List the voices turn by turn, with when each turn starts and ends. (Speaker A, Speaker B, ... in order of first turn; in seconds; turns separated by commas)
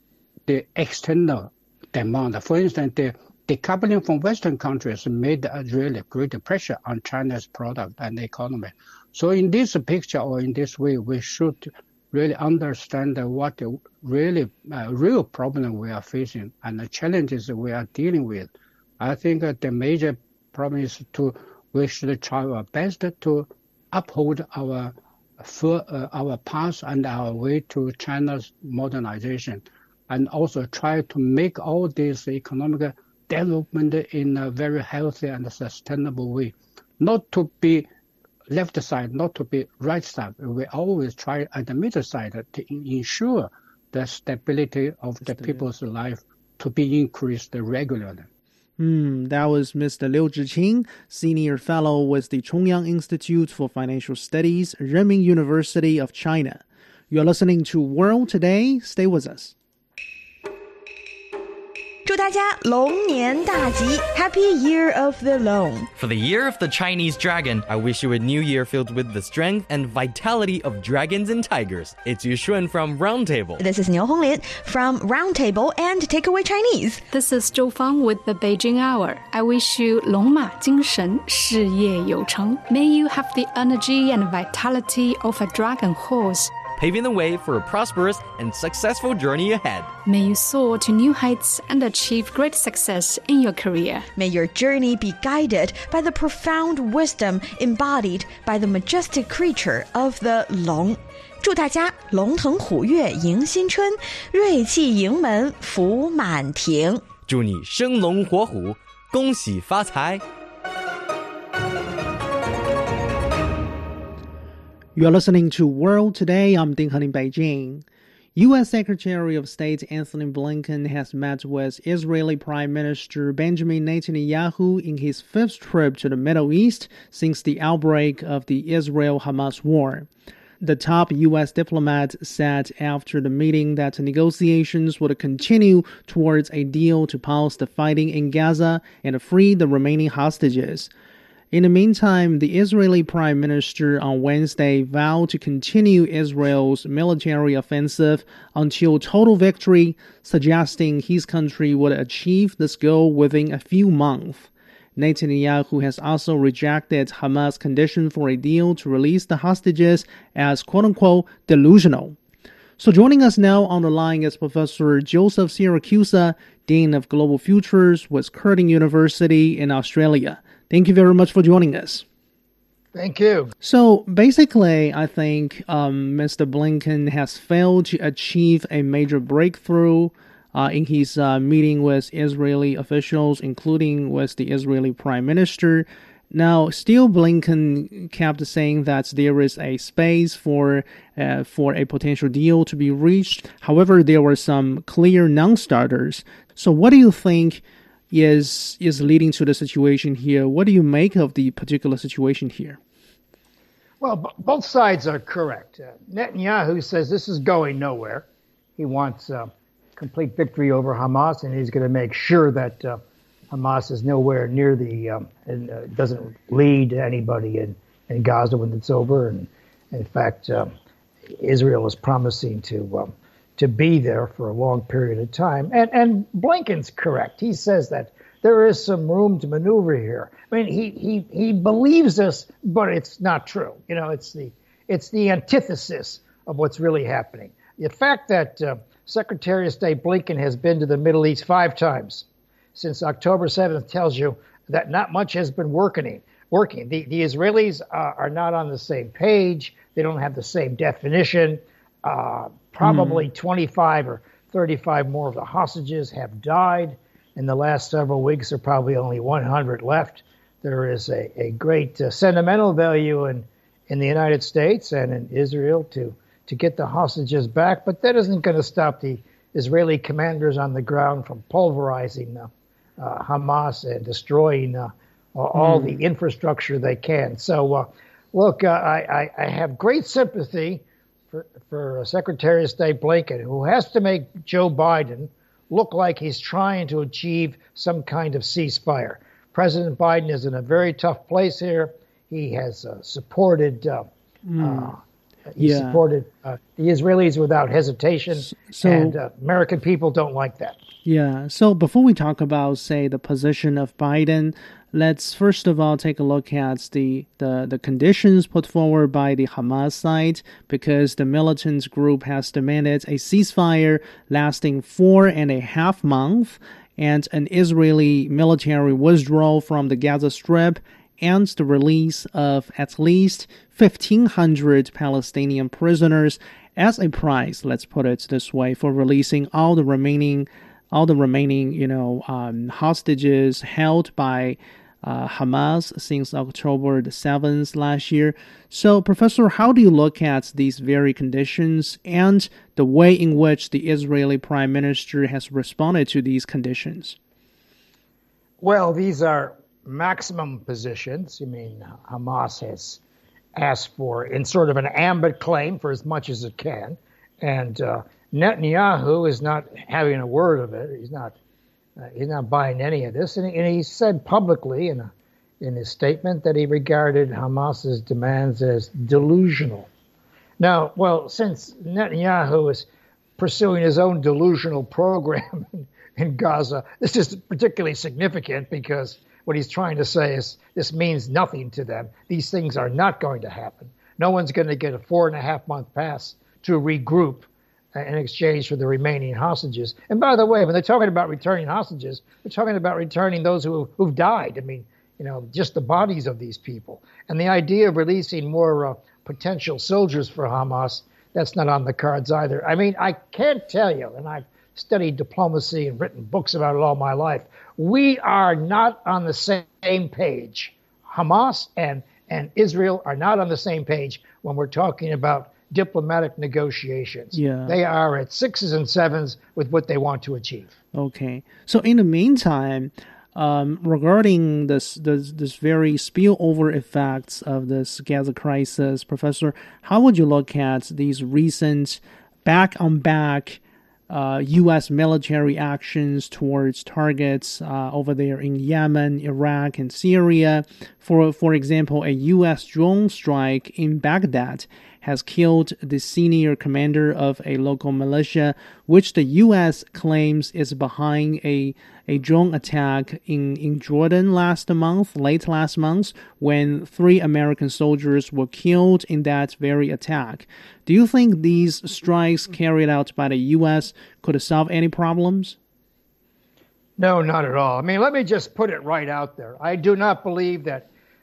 Speaker A: 0.5-37.9, Speaker A: 38.5-48.3, Speaker B: 45.2-45.6, Speaker B: 48.8-59.5, Speaker C: 62.0-65.9, Speaker D: 66.0-73.6, Speaker C: 73.6-77.0, Speaker E: 77.1-86.5, Speaker D: 86.8-89.9, Speaker E: 90.0-94.1, Speaker C: 94.2-107.1, Speaker D: 107.2-110.2, Speaker B: 115.0-117.8, Speaker B: 118.3-130.1, Speaker B: 130.6-140.9, Speaker B: 141.5-162.2, Speaker B: 162.8-172.0, Speaker F: 172.9-173.5, Speaker B: 173.6-202.8, Speaker F: 204.0-208.2, Speaker F: 208.8-213.0, Speaker F: 213.5-220.7, Speaker F: 221.3-294.1, Speaker B: 252.8-253.3, Speaker B: 275.6-276.0, Speaker B: 294.4-294.9, Speaker F: 294.6-295.0, Speaker F: 295.5-300.8, Speaker B: 295.6-296.0, Speaker B: 298.3-299.2, Speaker B: 301.0-347.2, Speaker F: 348.6-353.0, Speaker F: 353.5-361.4, Speaker F: 362.0-369.9, Speaker F: 370.6-372.9, Speaker F: 373.4-420.7, Speaker B: 417.3-417.7, Speaker B: 420.9-465.6, Speaker F: 467.0-470.9